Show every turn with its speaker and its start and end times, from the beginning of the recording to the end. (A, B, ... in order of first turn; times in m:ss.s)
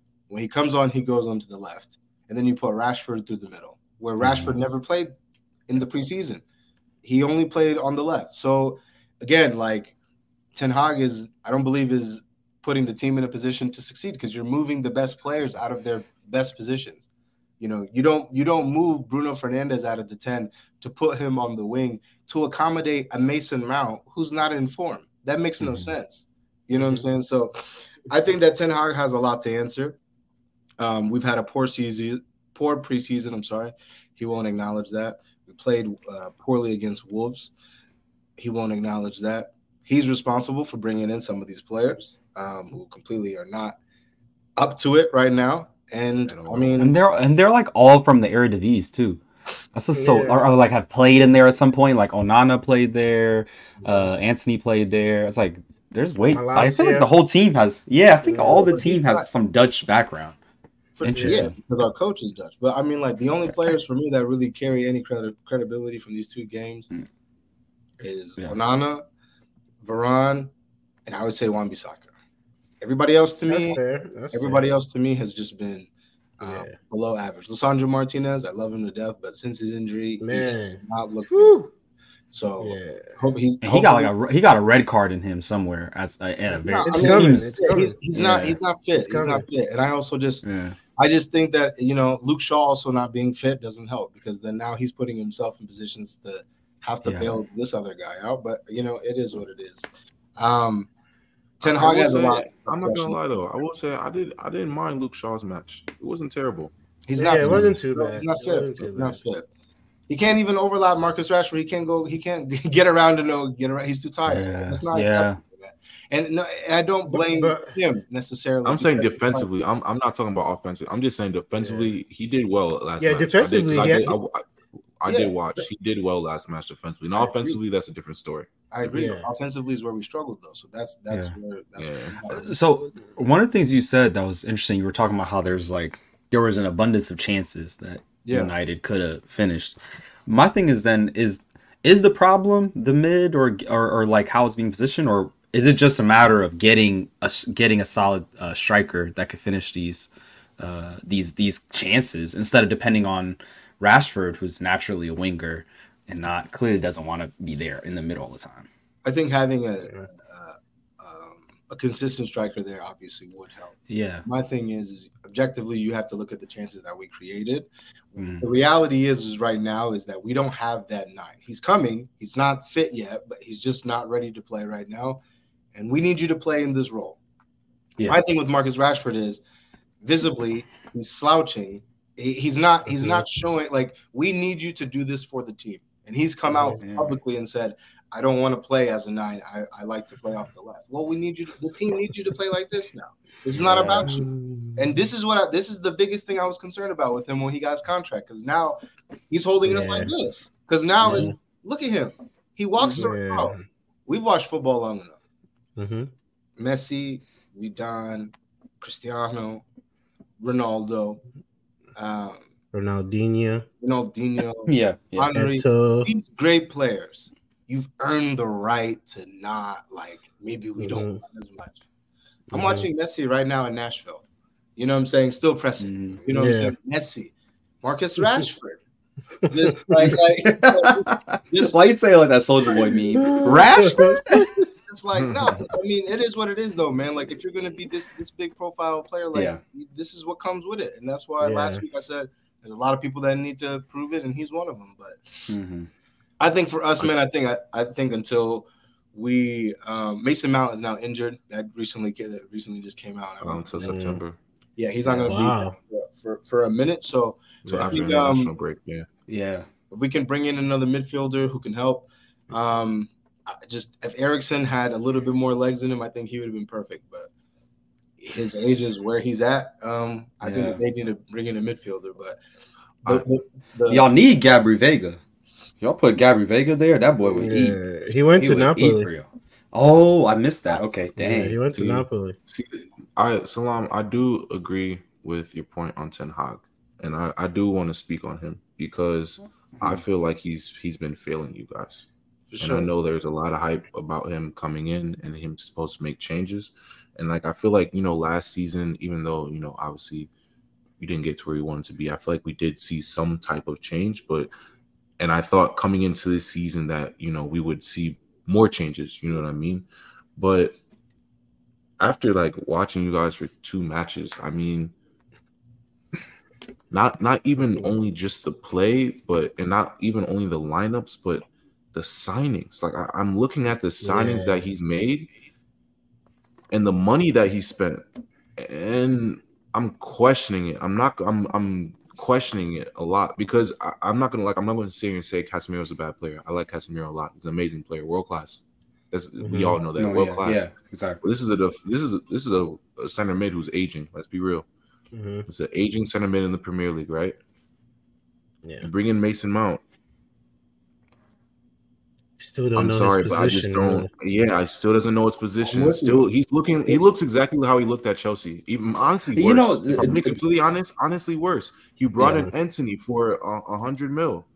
0:00.3-0:05.2 A
0:04.2-0:04.6 B
0:05.7-0:06.4 A
0:07.0-0:10.0 A
0:10.6-0:17.1 A
0:17.6-0:30.0 A
0:25.6-0:25.9 B
0:26.8-0:27.1 C
0:30.8-0:37.5 A
0:38.4-0:43.8 A
0:44.6-0:47.0 A
0:46.2-0:46.8 D
0:46.8-0:49.2 B
0:49.7-1:00.4 B
0:50.0-0:50.4 C
0:56.3-0:57.1 C
0:58.2-0:59.3 A
1:01.0-1:06.9 A
1:01.0-1:01.6 B
1:01.1-1:01.5 C
1:08.0-1:09.0 A
1:09.8-1:10.5 A
1:11.1-1:12.1 A
1:12.8-1:13.8 A
1:13.5-1:14.7 C
1:14.3-1:15.9 A
1:16.4-1:16.8 C
1:16.4-1:21.6 A
1:20.2-1:21.7 C
1:22.3-1:24.1 A
1:22.6-1:23.2 C
1:23.6-1:27.5 B
1:26.6-1:40.9 A
1:26.8-1:28.0 C
1:28.1-1:28.6 B
1:29.0-1:29.5 C
1:30.4-1:30.8 B
1:37.0-1:37.3 B
1:41.6-1:46.7 D
1:41.6-1:43.2 A
1:47.1-1:49.5 A
1:47.2-1:49.2 C
1:47.4-1:47.7 B
1:50.1-1:59.5 A
1:54.3-1:55.4 B
1:57.1-1:57.7 C
1:58.6-2:04.5 D
2:03.0-2:04.2 C
2:05.0-2:09.2 D
2:05.1-2:05.4 A
2:07.2-2:07.6 A
2:08.7-2:12.5 A
2:08.9-2:09.3 C
2:11.8-2:12.2 D
2:12.3-2:38.7 B
2:18.2-2:18.5 A
2:39.0-2:47.7 A
2:43.9-2:44.3 B
2:48.2-2:48.5 B
2:48.4-2:55.2 A
2:55.8-2:57.2 A
2:58.0-2:59.4 A
3:00.0-3:23.5 A
3:06.5-3:07.2 B
3:13.6-3:14.1 B
3:13.6-3:14.9 C
3:19.6-3:20.1 C
3:21.0-3:21.3 C
3:22.9-3:23.6 C
3:24.1-3:25.2 A
3:25.8-3:26.1 C
3:26.6-3:29.6 A
3:30.4-3:31.2 A
3:32.0-3:32.5 A
3:32.7-3:33.7 C
3:33.8-3:41.8 A
3:34.7-3:35.3 B
3:35.3-3:36.1 C
3:40.8-3:41.2 C
3:42.5-3:42.9 C
3:42.5-3:44.2 A
3:44.8-3:48.8 A
3:45.8-3:46.2 B
3:46.3-3:46.7 C
3:49.5-3:50.0 C
3:49.5-3:51.8 A
3:50.0-3:54.5 B
3:52.7-3:53.7 A
3:53.2-3:54.6 C
3:54.8-4:05.5 A
3:55.2-3:55.5 D
3:59.3-3:59.6 B
4:01.4-4:01.8 C
4:05.5-4:05.9 B
4:06.4-4:13.7 A
4:13.4-4:14.4 D
4:13.8-4:14.2 C
4:14.8-4:18.5 A
4:15.3-4:15.8 C
4:17.6-4:17.9 C
4:17.7-4:19.1 D
4:19.3-4:19.7 B
4:19.9-4:27.3 A
4:28.2-4:32.4 A
4:30.4-4:30.8 B
4:33.0-4:34.1 A
4:33.9-4:35.2 B
4:35.8-4:37.8 B
4:37.4-4:39.1 C
4:38.4-4:41.6 B
4:41.2-4:42.4 C
4:41.8-5:00.3 D
4:52.5-4:52.9 A
5:01.0-5:04.5 D
5:05.2-5:10.8 D
5:12.0-5:14.9 D
5:16.9-5:25.3 D
5:24.0-5:24.6 C
5:26.7-5:28.0 D
5:28.6-5:40.7 D
5:39.4-5:39.8 C
5:40.0-5:41.2 B
5:41.2-5:44.7 D
5:45.1-5:45.5 C
5:45.5-5:47.4 D
5:48.8-5:49.8 D
5:52.4-5:54.1 C
5:52.8-6:04.5 D
5:59.3-6:00.4 B
6:02.2-6:02.5 C